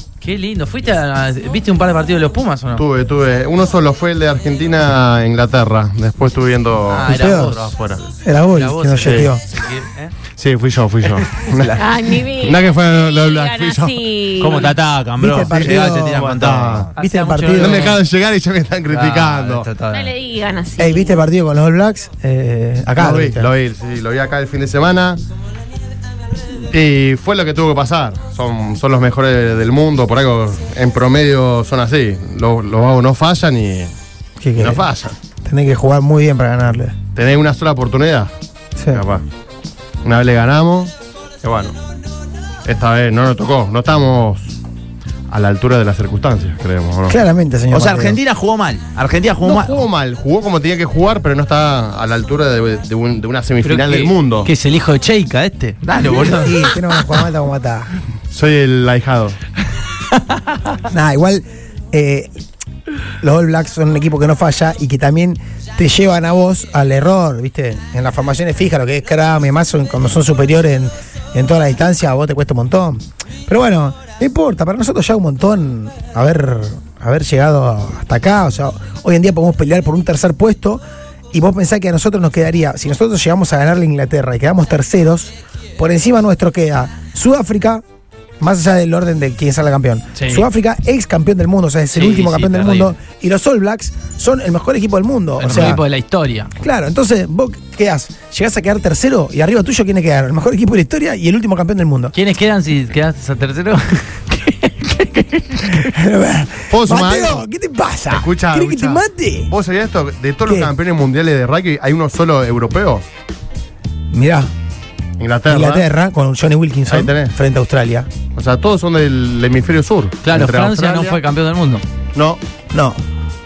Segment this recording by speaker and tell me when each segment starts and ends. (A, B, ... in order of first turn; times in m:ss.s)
0:00.2-0:02.8 A
0:02.8-0:08.0 B
0:06.9-0:07.8 A
0:07.1-0:07.6 C
0:08.2-0:09.4 C
0:08.5-0:10.1 A
0:09.0-0:09.3 B
0:10.4-0:11.8 B
0:11.6-0:11.8 D
0:11.8-0:14.8 E
0:12.4-0:14.0 B
0:14.4-0:16.9 D
0:15.2-0:16.3 C
0:15.4-0:16.9 B
0:17.0-0:18.0 A
0:17.0-0:17.9 C
0:17.6-0:19.7 B
0:18.9-0:20.1 D
0:19.9-0:21.2 E
0:20.8-0:23.5 C
0:23.0-0:25.2 B
0:26.7-0:33.9 B
0:34.4-0:34.8 C
0:34.6-0:35.2 B
0:35.4-0:37.0 C
0:37.2-0:38.3 B
0:38.8-0:39.0 C
0:38.9-0:39.2 B
0:40.0-0:41.8 B
0:42.6-0:44.6 B
0:45.3-0:47.2 B
0:47.1-0:48.2 C
0:47.7-0:49.8 D
0:49.4-0:54.5 B
0:53.6-0:56.8 A
0:55.8-0:56.7 D
0:56.2-0:57.9 C
0:58.3-0:59.4 B
1:00.9-1:02.3 C
1:03.2-1:27.8 C
1:28.4-1:35.8 C
1:30.2-1:30.5 A
1:31.9-1:32.9 A
1:35.4-1:36.5 A
1:36.6-1:42.1 C
1:42.1-1:45.9 A
1:45.7-1:49.5 C
1:46.7-1:47.5 B
1:48.1-1:53.0 B
1:50.5-1:50.7 C
1:54.1-1:54.5 C
1:55.2-1:55.9 B
1:55.5-1:58.1 C
1:56.9-1:57.3 B
1:58.4-2:01.2 B
2:00.2-2:01.8 A
2:02.2-2:02.4 B
2:02.7-2:03.0 C